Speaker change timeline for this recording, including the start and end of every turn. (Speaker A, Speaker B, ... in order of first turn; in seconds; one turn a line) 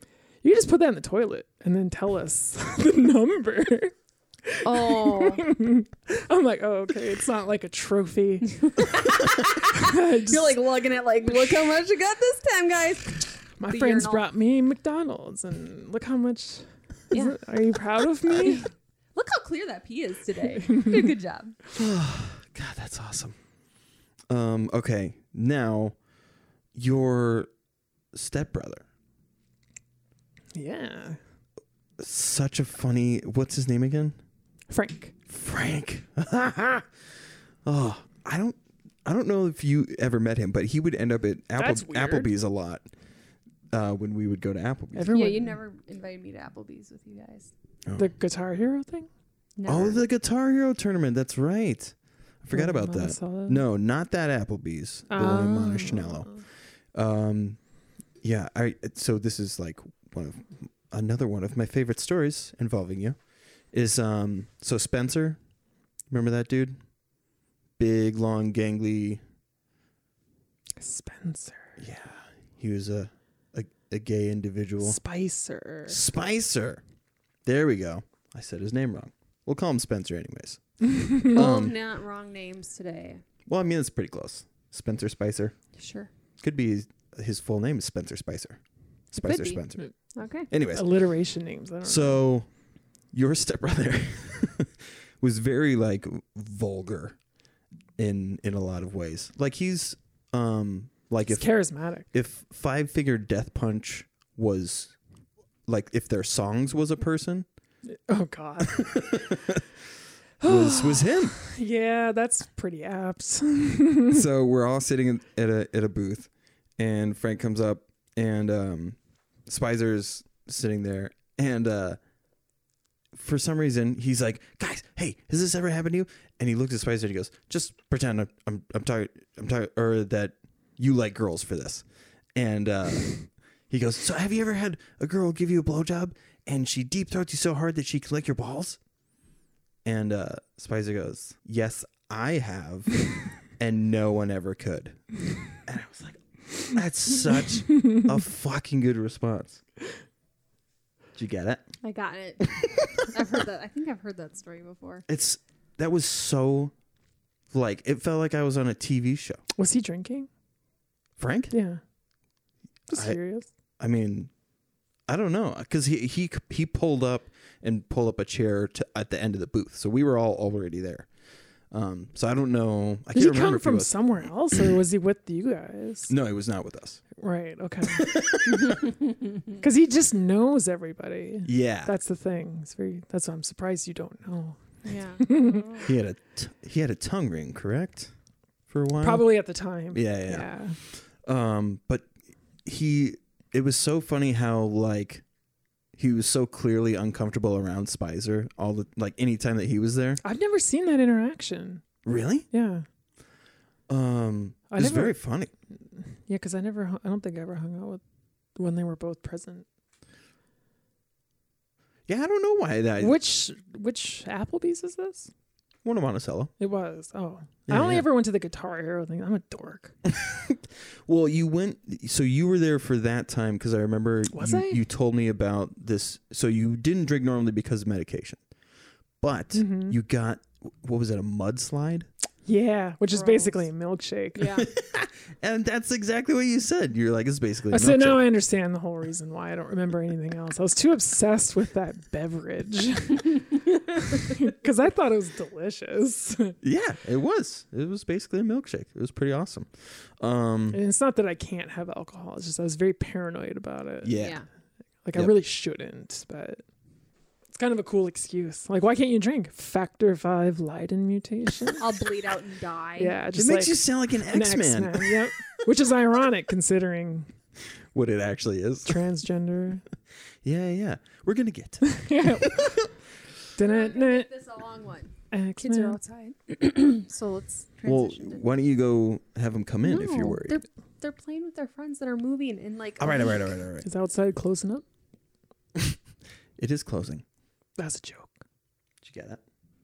Speaker A: 0.4-3.9
Speaker A: 4.4-9.2
Speaker B: 4.6-5.5
Speaker B: 8.7-14.2
Speaker A: 9.7-10.6
Speaker A: 13.6-18.7
Speaker B: 17.1-17.4
Speaker B: 18.3-18.6
Speaker B: 19.1-21.6
Speaker A: 20.6-21.1
Speaker C: 21.7-23.4
Speaker C: 24.3-25.9
Speaker C: 26.7-27.5
Speaker C: 28.1-28.8
Speaker A: 30.5-31.2
Speaker C: 32.0-34.1
Speaker A: 34.7-35.1
Speaker C: 35.3-36.9
Speaker C: 37.6-42.9
Speaker A: 41.6-42.3
Speaker C: 43.7-45.1
Speaker A: 44.9-45.6
Speaker B: 45.1-47.5
Speaker A: 48.0-49.1
Speaker B: 49.6-50.0
Speaker C: 49.6-56.3
Speaker A: 52.5-53.6
Speaker A: 55.1-56.2
Speaker C: 56.9-57.6
Speaker C: 58.2-63.2
Speaker C: 63.7-65.4
Speaker C: 66.1-66.8
Speaker C: 67.8-69.2
Speaker A: 70.8-71.8
Speaker C: 71.8-75.0
Speaker A: 74.8-76.0
Speaker C: 75.9-76.8
Speaker C: 77.4-80.6
Speaker A: 80.9-81.3
Speaker C: 81.2-81.7
Speaker B: 81.3-83.2
Speaker C: 83.5-85.5
Speaker B: 85.8-86.1
Speaker C: 86.4-88.6
Speaker C: 89.1-89.8
Speaker B: 89.2-89.6
Speaker B: 90.1-90.5
Speaker C: 90.5-90.8
Speaker A: 90.7-92.2
Speaker C: 91.8-92.5
Speaker C: 93.1-97.2
Speaker C: 98.0-101.5
Speaker A: 101.3-102.1
Speaker C: 102.1-104.9
Speaker C: 105.7-107.5
Speaker A: 108.1-109.2
Speaker C: 108.7-109.6
Speaker A: 110.4-114.2
Speaker C: 110.4-111.4
Speaker C: 114.1-122.0
Speaker C: 123.1-133.2
Speaker C: 133.7-138.8
Speaker C: 139.8-145.0
Speaker C: 145.6-149.6
Speaker C: 151.2-151.6
Speaker B: 151.8-155.0
Speaker C: 152.4-153.4
Speaker C: 155.1-156.7
Speaker C: 157.5-159.4
Speaker A: 159.6-160.3
Speaker C: 161.2-161.5
Speaker A: 161.5-161.8
Speaker A: 162.9-163.5
Speaker C: 162.9-163.2
Speaker C: 163.8-164.3
Speaker C: 165.1-171.1
Speaker C: 171.7-174.7
Speaker A: 173.1-176.1
Speaker C: 176.1-177.0
Speaker A: 177.2-178.1
Speaker C: 177.8-178.9
Speaker B: 178.6-178.9
Speaker A: 179.6-184.6
Speaker C: 181.4-181.9
Speaker B: 184.8-185.9
Speaker A: 185.2-185.7
Speaker C: 185.8-188.1
Speaker C: 188.7-189.3
Speaker A: 189.0-190.8
Speaker C: 189.9-192.1
Speaker C: 192.6-195.2
Speaker C: 196.0-200.2
Speaker A: 200.2-201.8
Speaker C: 202.0-202.5
Speaker A: 202.5-202.8
Speaker C: 203.9-205.5
Speaker A: 204.7-205.2
Speaker A: 206.2-208.0
Speaker A: 208.6-209.6
Speaker C: 212.1-213.2
Speaker A: 213.0-215.3
Speaker C: 215.8-216.5
Speaker A: 216.6-219.9
Speaker C: 217.7-218.1
Speaker C: 220.0-228.4
Speaker A: 224.3-224.8
Speaker C: 229.2-232.1
Speaker A: 229.5-230.0
Speaker A: 232.4-234.6
Speaker B: 233.1-233.6
Speaker B: 234.3-234.7
Speaker C: 234.6-238.2
Speaker A: 237.7-246.6
Speaker C: 246.6-250.8
Speaker A: 250.7-254.2
Speaker C: 254.0-254.4
Speaker B: 254.1-254.4
Speaker A: 255.0-256.6
Speaker A: 257.5-261.8
Speaker B: 261.8-263.2
Speaker A: 263.0-267.3
Speaker C: 263.3-265.3
Speaker C: 267.9-269.0
Speaker A: 268.9-269.8
Speaker C: 270.4-272.9
Speaker A: 271.8-272.8
Speaker A: 273.6-274.3
Speaker B: 273.6-278.4
Speaker A: 275.3-276.0
Speaker C: 277.8-280.6
Speaker B: 279.8-283.4
Speaker C: 283.0-283.9
Speaker A: 283.8-284.8
Speaker C: 286.6-287.2
Speaker A: 287.8-288.3
Speaker C: 289.0-289.4